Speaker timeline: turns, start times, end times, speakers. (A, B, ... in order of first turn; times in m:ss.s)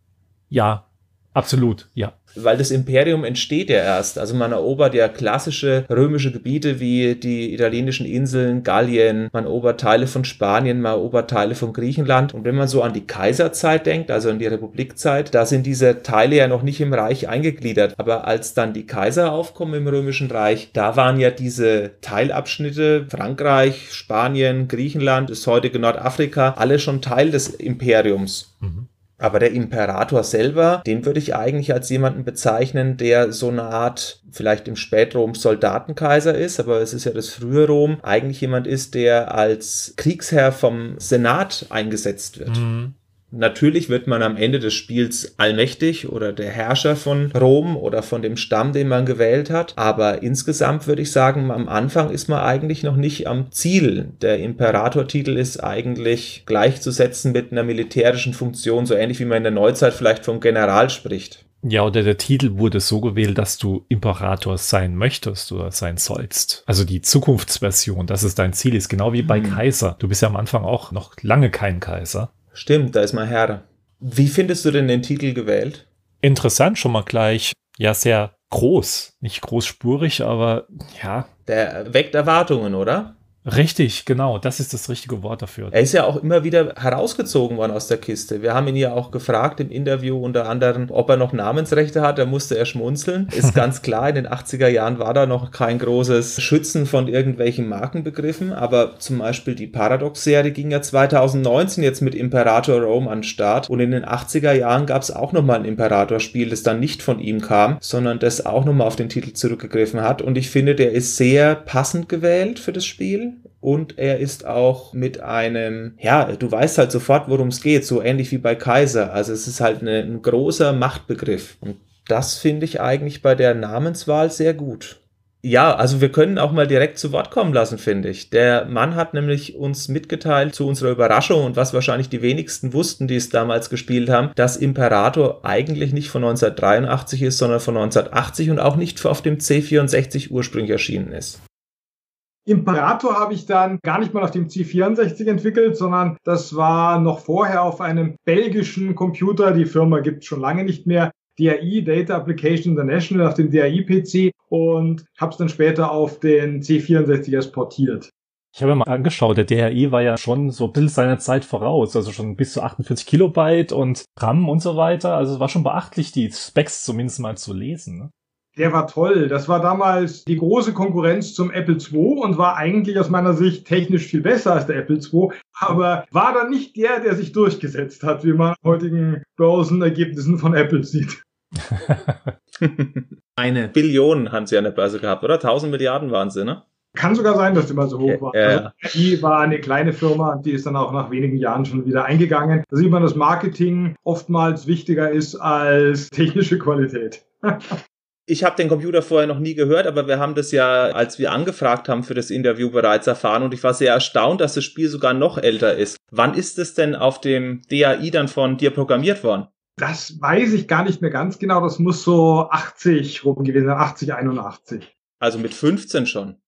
0:00.5-0:02.1 A
0:02.3-0:28.6 B
0:28.6-0:28.9 A
0:29.2-0:42.7 B
0:42.5-0:42.9 A
0:43.3-1:01.4 B
1:01.6-1:12.3 A
1:09.2-1:09.6 B
1:12.5-1:15.8 B
1:16.2-1:21.3 A
1:21.5-1:23.1 B
1:23.4-1:25.8 A
1:25.7-2:21.4 B
2:22.5-2:38.1 C
2:38.5-2:48.1 A
2:48.6-3:01.2 C
3:01.6-3:02.3 A
3:02.6-3:06.6 B
3:06.9-3:17.8 C
3:08.0-3:08.7 B
3:18.3-3:29.5 B
3:29.8-3:34.9 C
3:35.2-3:36.4 B